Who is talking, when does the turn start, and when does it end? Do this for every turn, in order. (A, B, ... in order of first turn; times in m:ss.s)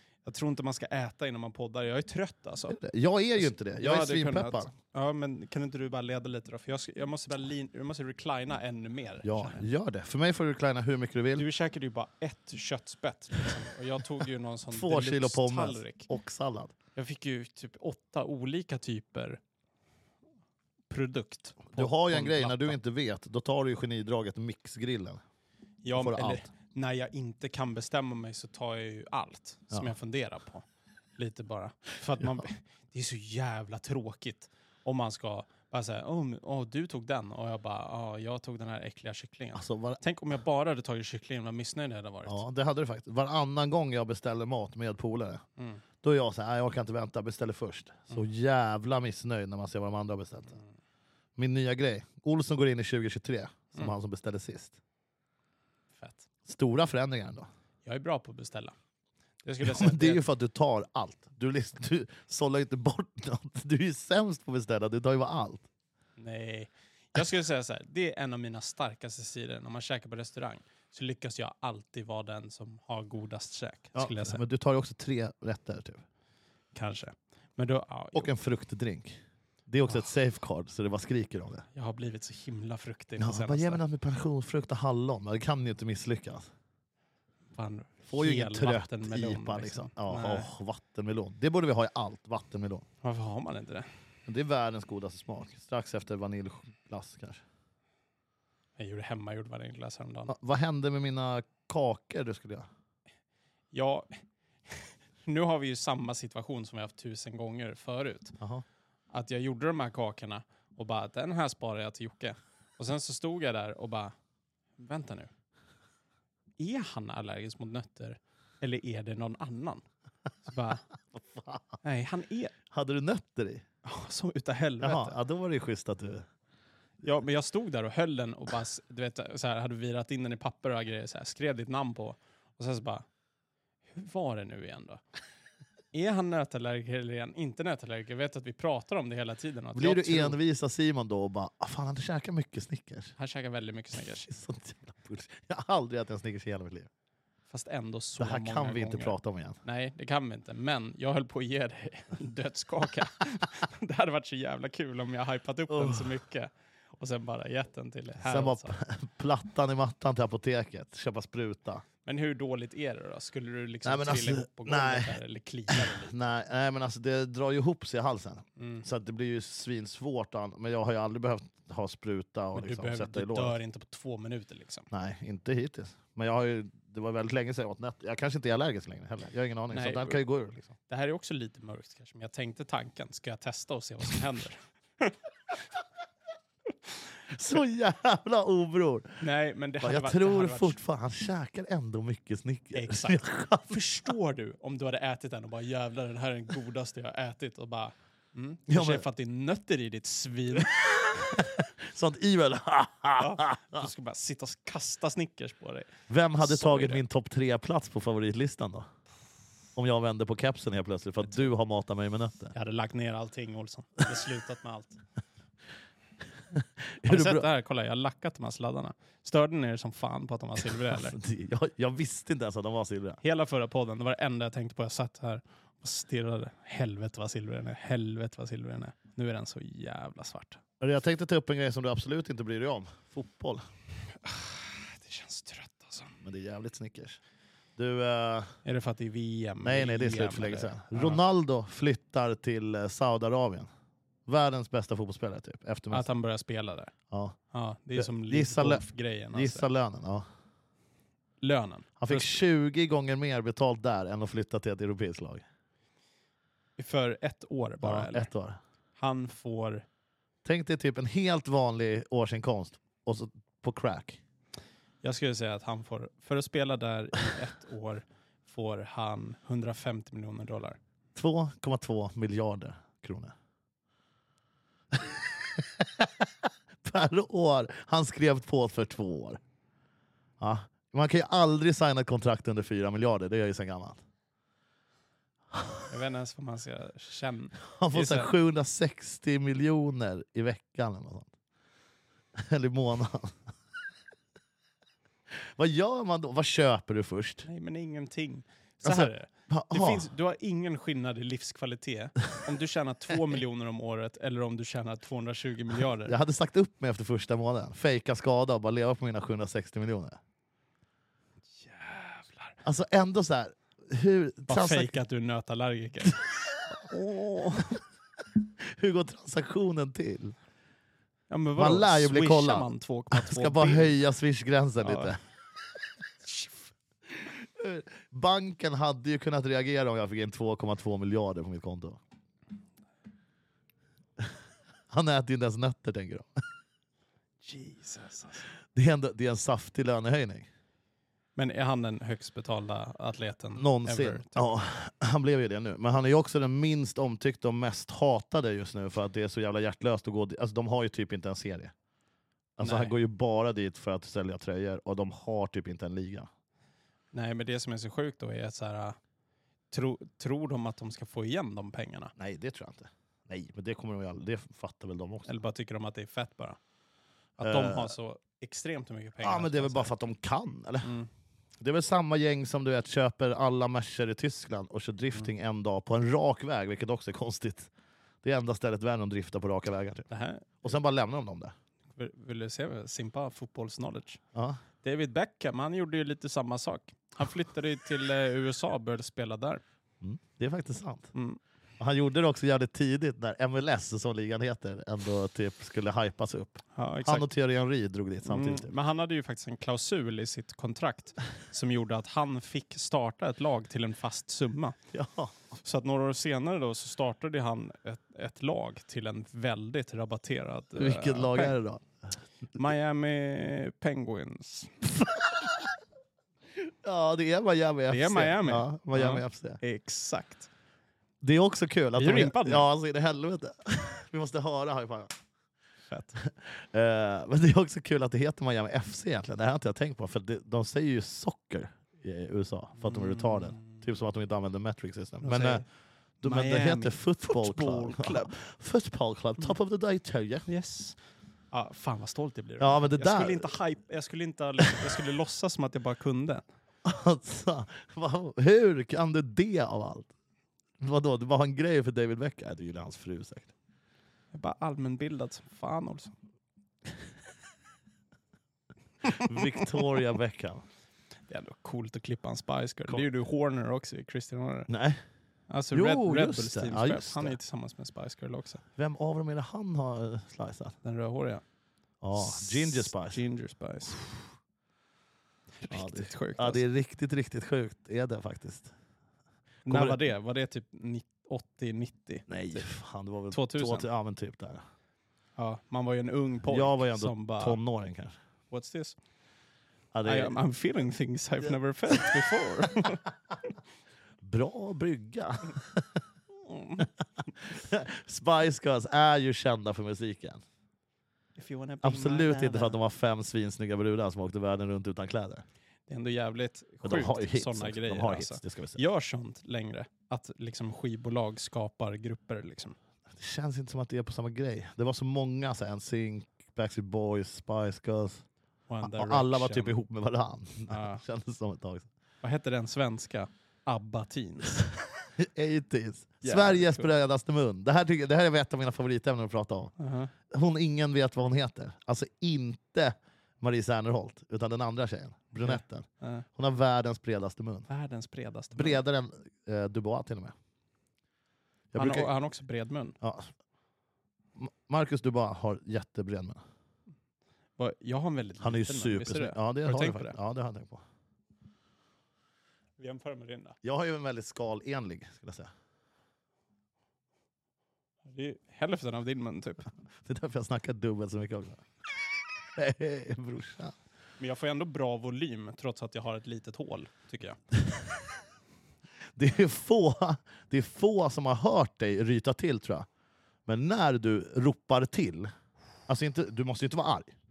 0:00.2-0:02.8 A
0:02.7-0:04.7 B
0:03.4-0:09.7 A
0:09.2-0:11.4 B
0:11.4-0:16.1 A
0:14.7-0:16.7 B
0:16.9-0:19.4 A
0:20.9-0:22.8 A
0:21.7-0:25.2 B
0:25.8-0:30.6 A
0:25.9-0:26.5 B
0:31.2-0:42.4 A
0:39.5-0:40.0 B
0:42.2-0:45.4 B
0:46.0-0:50.6 B
0:51.4-0:54.8 B
0:56.0-0:56.3 A
0:56.4-0:57.5 B
0:57.8-0:58.7 A
0:59.4-1:00.2 A
0:59.6-1:05.7 B
1:06.2-1:14.4 A
1:13.9-1:16.0 B
1:16.7-1:18.3 A
1:18.1-1:21.6 B
1:21.7-1:23.8 A
1:23.2-1:26.5 B
1:27.5-1:30.5 A
1:28.1-1:32.8 B
1:33.0-1:33.9 A
1:34.3-1:37.4 B
1:38.8-1:40.3 A
1:40.3-1:42.7 B
1:43.7-1:48.4 A
1:48.4-1:48.6 B
1:49.1-1:54.1 A
1:54.8-1:55.3 A
1:56.6-1:59.8 A
2:00.4-2:00.8 A
2:01.2-2:01.8 B
2:01.8-2:02.5 A
2:02.7-2:03.6 B
2:03.8-2:05.2 A
2:04.8-2:06.2 B
2:07.0-2:13.0 A
2:13.9-2:15.0 A
2:15.9-2:20.4 A
2:19.7-2:23.1 B
2:23.2-2:24.3 A
2:24.3-2:26.9 B
2:27.5-2:38.7 A
2:28.2-2:29.6 B
2:35.7-2:36.1 B
2:38.2-2:41.8 B
2:42.0-2:46.2 A
2:43.8-2:45.2 B
2:45.7-2:53.6 B
2:48.6-2:48.8 A
2:52.5-2:54.9 A
2:54.9-3:00.7 B
2:59.7-3:00.2 A
3:00.9-3:05.1 A
3:07.3-3:09.2 B
3:09.2-3:10.8 A
3:09.8-3:13.8 B
3:12.7-3:21.5 A
3:18.7-3:19.0 B
3:20.8-3:23.8 B
3:23.2-3:27.0 A
3:26.1-3:28.8 B
3:29.8-3:32.5 B
3:32.5-3:35.0 A
3:36.5-3:37.4 B
3:37.0-3:41.2 A
3:40.7-3:43.2 B
3:43.2-3:50.6 A
3:50.8-3:53.6 B
3:54.2-3:56.2 A
3:56.2-3:57.2 B
3:57.8-3:58.5 B
3:58.6-4:01.2 A
3:59.6-4:03.7 B
4:04.3-4:06.0 B
4:05.9-4:06.9 A
4:07.1-4:07.4 B
4:07.5-4:09.7 A
4:08.0-4:10.2 B
4:11.4-4:12.4 A
4:12.0-4:15.4 B
4:16.8-4:18.3 A
4:17.8-4:18.6 B
4:19.0-4:19.8 A
4:20.4-4:24.2 B
4:25.0-4:30.8 A
4:31.2-4:33.3 B
4:34.9-4:39.4 B
4:40.4-4:44.0 B
4:45.6-4:45.8 B
4:45.9-4:48.3 A
4:47.6-4:51.3 B
4:52.4-4:53.4 B
4:55.3-4:57.4 B
4:57.4-5:06.2 A
4:58.8-5:00.1 B
5:06.0-5:10.2 B
5:11.6-5:12.6 A
5:12.6-5:15.0 B
5:14.5-5:17.8 A
5:18.4-5:20.3 B
5:21.3-5:24.0 A
5:21.6-5:25.2 B
5:24.8-5:25.1 A
5:27.2-5:32.0 B
5:34.9-5:36.4 B
5:37.4-5:38.5 A
5:38.7-5:40.5 B
5:41.4-5:44.4 A
5:43.6-5:51.7 B
5:52.6-5:56.3 B
5:52.6-5:52.9 A
5:57.1-5:59.0 A
5:59.7-6:02.1 A
6:02.2-6:05.3 B
6:05.2-6:06.6 A
6:07.4-6:09.9 A
6:07.4-6:07.9 B
6:09.2-6:10.9 B
6:10.8-6:11.1 A
6:11.6-6:17.7 B
6:18.2-6:20.0 B
6:20.1-6:20.6 A
6:20.6-6:21.5 B
6:22.0-6:24.2 A
6:24.3-6:24.6 B
6:24.8-6:29.6 A
6:30.0-6:31.1 B
6:31.1-6:31.4 A
6:31.8-6:38.7 B
6:36.8-6:37.3 A
6:38.2-6:44.8 A
6:44.9-6:45.4 B
6:45.6-6:51.6 A
6:50.8-6:52.1 B
6:52.5-6:54.8 A
6:55.0-6:55.7 B
6:56.6-6:59.6 B
6:57.9-7:00.5 A
7:01.2-7:05.2 B
7:02.0-7:02.6 A
7:05.9-7:06.2 A
7:06.2-7:15.6 B
7:12.8-7:13.8 A
7:15.2-7:15.6 A
7:16.2-7:20.4 B
7:16.2-7:18.4 A
7:20.5-7:21.0 A
7:21.5-7:26.4 A
7:22.6-7:23.5 B
7:26.8-7:30.1 B
7:30.8-7:33.5 B
7:34.3-7:36.1 A
7:39.1-7:40.6 B
7:41.3-7:44.7 A
7:44.7-7:45.0 B
7:45.5-7:48.6 A
7:45.7-7:47.4 B
7:48.8-7:50.7 B
7:50.8-7:51.4 A
7:52.0-7:53.2 B
7:52.1-7:54.0 A
7:55.6-7:56.6 A
7:55.7-7:58.7 B
7:59.6-8:02.7 A
7:59.7-8:00.0 B
8:02.3-8:04.6 B
8:03.3-8:03.8 A
8:05.4-8:07.6 A
8:06.5-8:08.1 B
8:08.5-8:09.0 A
8:09.9-8:10.4 B
8:10.0-8:13.0 A
8:11.9-8:12.3 B
8:14.2-8:16.0 B
8:16.4-8:16.9 A
8:17.4-8:20.4 B
8:21.4-8:22.8 A
8:21.8-8:25.4 B
8:25.9-8:32.8 A
8:26.8-8:28.8 B
8:33.1-8:38.2 B
8:38.7-8:39.7 A
8:38.8-8:41.9 B
8:40.7-8:41.0 A
8:42.2-8:44.6 A
8:45.2-8:49.7 B
8:46.2-8:46.9 A
8:49.8-8:50.1 A
8:50.3-8:57.7 B
8:55.4-8:56.2 A
8:57.7-8:58.8 A
8:58.6-9:00.3 B
9:01.7-9:02.1 B
9:01.8-9:03.0 A
9:03.0-9:03.3 B
9:04.4-9:06.4 B
9:07.6-9:10.2 A
9:08.4-9:10.8 B
9:12.8-9:13.6 A
9:13.6-9:15.5 B
9:18.1-9:19.7 A
9:20.0-9:21.6 B
9:22.6-9:23.8 B
9:24.2-9:27.4 A
9:27.5-9:28.1 B
9:29.1-9:32.9 B
9:33.5-9:35.3 B
9:35.9-9:37.1 B